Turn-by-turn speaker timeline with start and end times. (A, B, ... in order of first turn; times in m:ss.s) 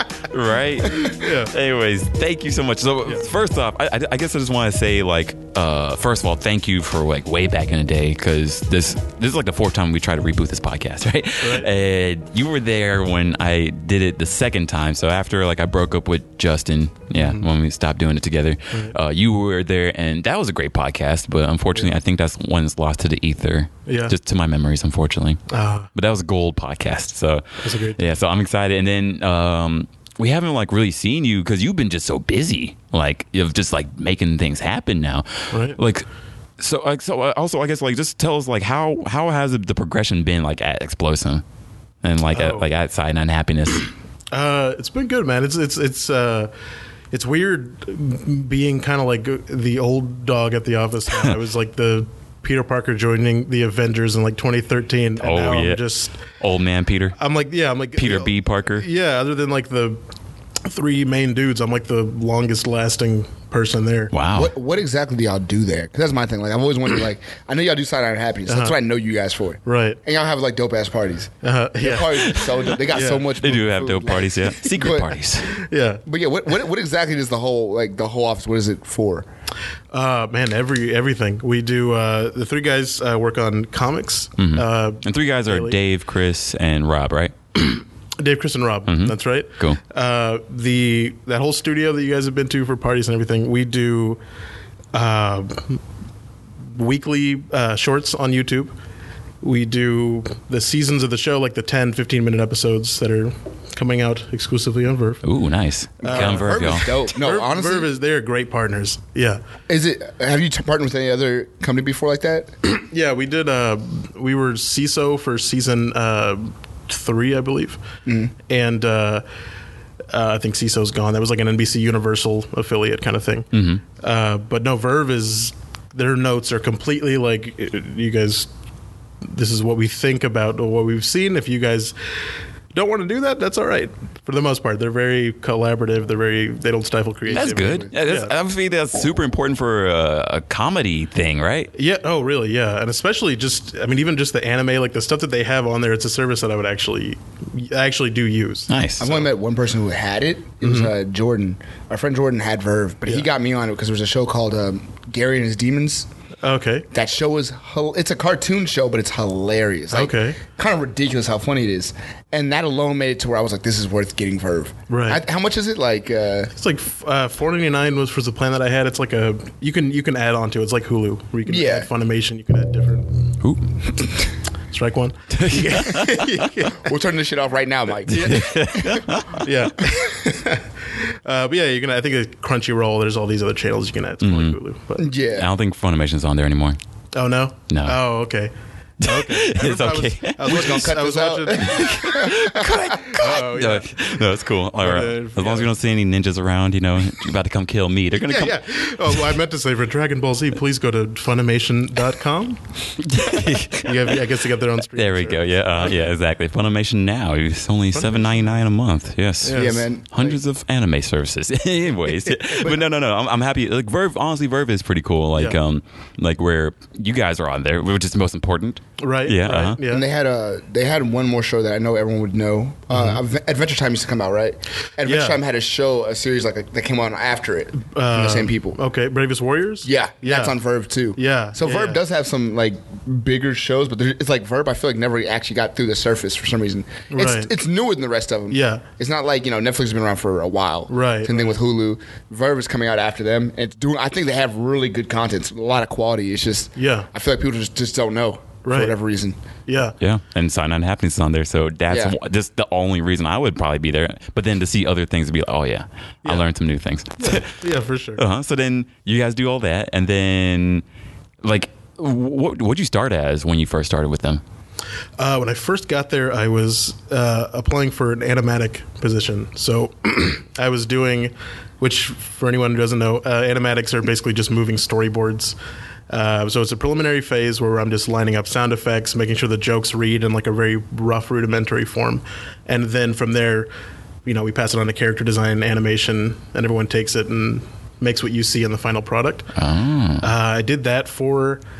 0:00.3-0:25.4 A
0:01.0-0:01.5 B
0:11.4-0:11.7 B
0:17.1-0:17.5 B
0:23.9-0:24.1 B
0:25.5-0:25.9 B
0:25.9-0:36.0 A
0:27.6-0:28.0 B
0:35.5-0:35.8 B
0:36.6-0:41.4 A
0:42.0-0:43.9 A
0:42.3-0:42.7 B
0:44.3-0:46.5 B
0:47.1-0:56.2 B
0:55.2-0:57.2 A
0:57.2-1:00.0 B
0:58.0-0:58.8 A
1:00.6-1:04.1 B
1:04.1-1:04.5 A
1:04.3-1:15.2 C
1:08.5-1:08.8 B
1:09.6-1:10.0 B
1:11.4-1:13.2 B
1:12.2-1:15.5 A
1:15.4-1:16.0 B
1:16.0-1:19.3 C
1:19.9-1:25.8 B
1:24.4-1:27.3 A
1:27.6-1:34.2 B
1:28.9-1:29.8 A
1:34.9-1:35.8 B
1:36.7-1:38.7 B
1:39.4-1:45.2 B
1:45.2-1:46.9 A
1:46.0-1:47.9 C
1:46.0-1:49.4 B
1:49.7-1:52.5 C
1:52.7-1:57.8 B
1:58.0-1:58.3 C
1:58.5-1:59.2 B
2:00.1-2:08.5 B
2:03.5-2:03.8 A
2:09.2-2:11.9 B
2:12.7-2:18.3 B
2:17.3-2:17.9 C
2:17.3-2:21.7 A
2:21.7-2:28.7 B
2:28.7-2:29.2 A
2:29.0-2:36.1 C
2:30.6-2:30.9 B
2:36.4-2:36.9 B
2:36.9-2:46.5 C
2:39.9-2:40.4 B
2:44.9-2:45.2 B
2:46.5-2:53.1 B
2:51.4-2:51.9 C
2:54.7-2:56.8 B
2:55.3-2:56.4 A
2:56.6-2:59.1 C
2:58.1-2:59.5 A
2:59.3-3:05.1 B
3:04.2-3:04.6 A
3:05.0-3:05.5 C
3:05.3-3:06.8 A
3:07.1-3:08.5 B
3:07.7-3:08.0 A
3:09.0-3:10.7 A
3:09.0-3:11.8 B
3:10.4-3:13.1 C
3:11.6-3:19.3 A
3:13.1-3:14.0 B
3:14.8-3:15.7 B
3:18.1-3:22.6 B
3:23.0-3:24.2 A
3:23.8-3:26.0 B
3:24.9-3:39.8 A
3:27.9-3:28.6 B
3:29.4-3:29.8 B
3:29.5-3:30.4 C
3:32.5-3:32.8 C
3:39.0-3:40.0 B
3:39.8-3:48.8 C
3:42.9-3:43.2 B
3:45.0-3:45.4 B
3:47.8-3:50.5 B
3:49.8-4:09.4 C
3:51.2-3:52.0 B
3:57.1-3:57.5 B
3:58.5-3:58.8 B
4:00.9-4:01.6 B
4:06.8-4:07.1 B
4:08.6-4:08.9 B
4:09.7-4:10.0 B
4:10.0-4:17.5 A
4:11.9-4:12.2 C
4:17.2-4:18.2 B
4:18.2-4:20.8 A
4:21.4-4:24.4 A
4:25.2-4:35.5 B
4:36.1-4:43.7 B
4:44.2-4:49.5 B
4:49.6-4:50.3 A
4:50.2-4:51.6 B